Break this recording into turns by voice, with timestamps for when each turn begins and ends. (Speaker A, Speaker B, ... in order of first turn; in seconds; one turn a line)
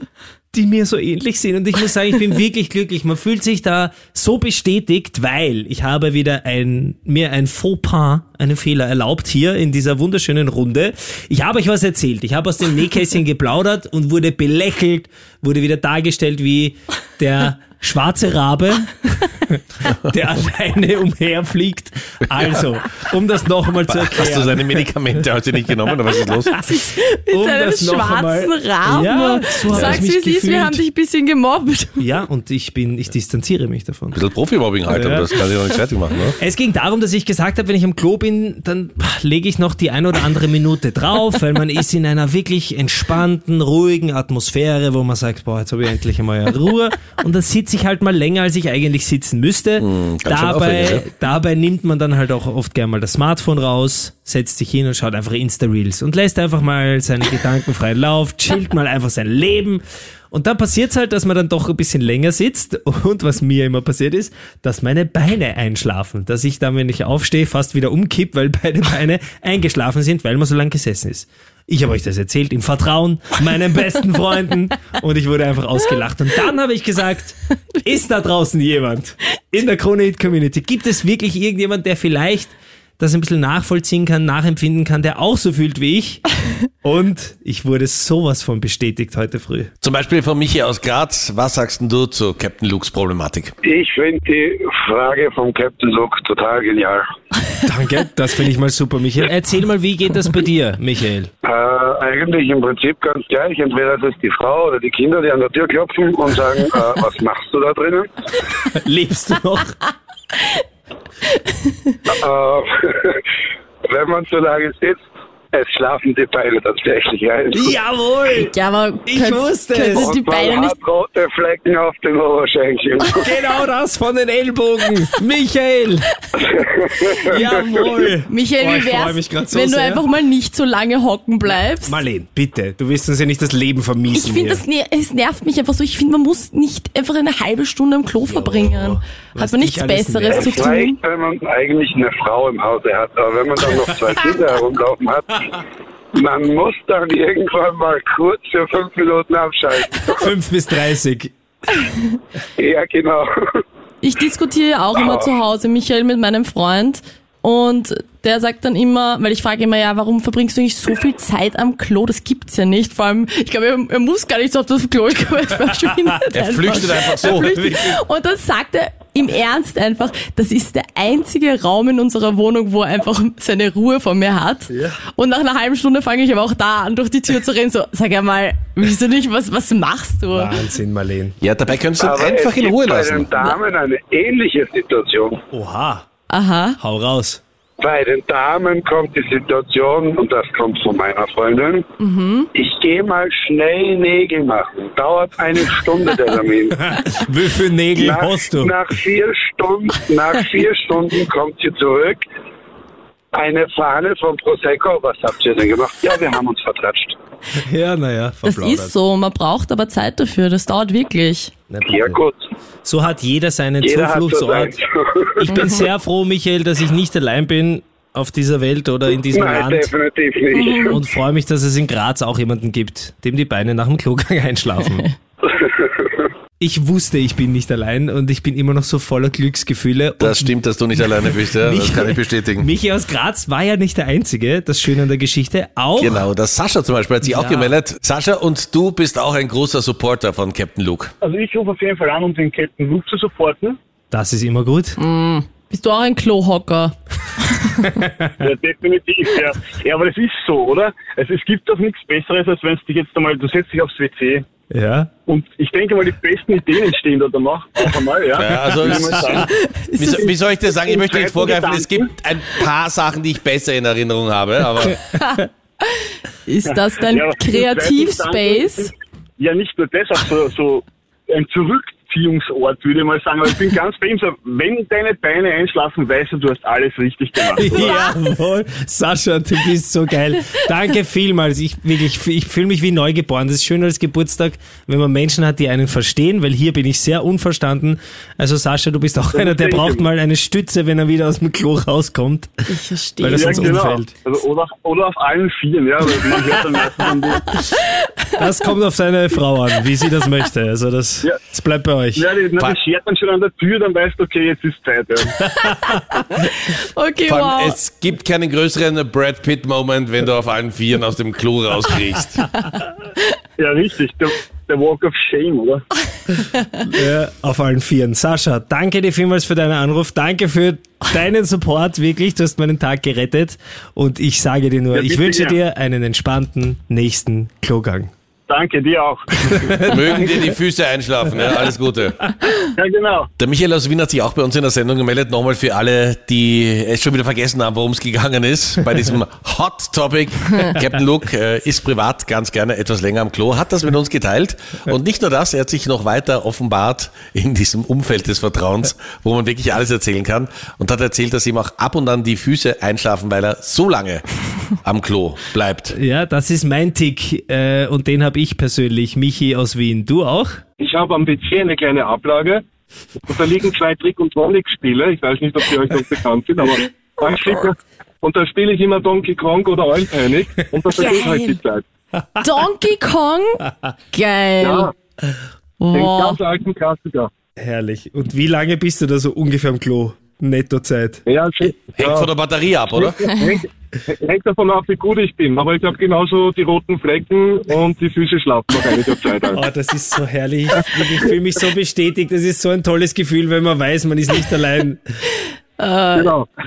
Speaker A: 0.5-24.8
Speaker B: 23.9-26.6
Speaker C: 26.6-32.0
Speaker A: 27.3-30.8
Speaker B: 29.7-30.0
Speaker A: 32.0-34.2
Speaker B: 34.1-36.3
Speaker A: 34.9-35.3
Speaker A: 36.4-86.2
Speaker B: 49.8-51.0
Speaker A: 86.8-89.7
Speaker B: 89.8-93.5
Speaker D: 93.6-97.0
Speaker A: 97.7-101.3
Speaker D: 101.4-108.3
Speaker A: 108.7-109.8
Speaker D: 112.1-113.2
Speaker D: 113.9-115.0
Speaker D: 115.5-117.8
Speaker A: 117.5-118.5
Speaker C: 118.3-120.8
Speaker A: 119.1-120.2
Speaker D: 119.9-123.3
Speaker A: 123.1-126.1
Speaker D: 126.4-128.1
Speaker A: 127.3-130.1
Speaker C: 127.4-132.0
Speaker A: 131.8-134.6
Speaker C: 134.1-141.0
Speaker A: 138.2-140.6
Speaker D: 140.3-145.4
Speaker D: 146.2-150.3
Speaker A: 150.2-151.3
Speaker D: 152.6-153.3
Speaker C: 154.0-180.7
Speaker D: 154.9-155.3
Speaker B: 166.3-167.8
Speaker A: 174.7-175.0
Speaker A: 180.3-181.3
Speaker B: 181.4-183.4
Speaker D: 182.0-185.4
Speaker A: 185.5-186.1
Speaker C: 186.3-186.8
Speaker A: 186.8-187.4
Speaker D: 187.8-191.8
Speaker C: 192.0-192.5
Speaker D: 192.5-196.8
Speaker A: 196.7-198.8
Speaker D: 197.9-202.2
Speaker D: 203.3-207.2
Speaker A: 207.6-208.9
Speaker C: 208.4-211.5
Speaker A: 211.7-212.2
Speaker D: 211.9-212.5
Speaker A: 212.8-214.8
Speaker D: 213.8-215.7
Speaker A: 215.3-219.9
Speaker C: 215.5-215.8
Speaker D: 219.3-221.0
Speaker C: 220.5-221.0
Speaker A: 220.9-225.1
Speaker D: 225.5-226.3
Speaker A: 226.6-230.5
Speaker B: 230.2-232.7
Speaker A: 231.1-236.3
Speaker B: 236.0-241.1
Speaker A: 237.2-237.8
Speaker E: 241.2-243.8
Speaker A: 244.1-245.0
Speaker C: 245.0-246.9
Speaker C: 247.5-247.9
Speaker E: 248.4-254.4
Speaker A: 254.7-255.1
Speaker E: 255.3-259.4
Speaker B: 258.3-265.0
Speaker C: 259.4-260.3
Speaker E: 261.0-262.0
Speaker C: 265.1-265.4
Speaker C: 266.5-268.9
Speaker E: 266.7-277.9
Speaker A: 277.6-292.5
Speaker E: 289.3-290.1
Speaker C: 292.7-293.9
Speaker A: 293.2-294.1
Speaker E: 293.3-297.4
Speaker A: 298.4-302.3
Speaker E: 302.2-305.3
Speaker B: 302.5-302.8
Speaker C: 305.6-307.8
Speaker B: 307.3-312.5
Speaker E: 313.6-315.8
Speaker A: 316.9-328.1
Speaker E: 324.9-325.6
Speaker E: 328.5-329.3
Speaker A: 329.5-330.3
Speaker B: 329.8-332.2
Speaker E: 332.8-333.3
Speaker B: 333.4-354.2
Speaker B: 354.8-355.9
Speaker A: 355.9-360.6
Speaker F: 360.8-362.6
Speaker F: 363.3-371.9
Speaker C: 370.9-371.6
Speaker C: 372.4-374.9
Speaker F: 374.6-374.9
Speaker C: 375.8-376.4
Speaker F: 375.9-377.3
Speaker A: 377.6-381.2
Speaker F: 381.3-382.3
Speaker B: 381.8-383.2
Speaker F: 382.9-389.6
Speaker A: 389.5-395.0
Speaker C: 395.8-396.3
Speaker F: 396.1-396.5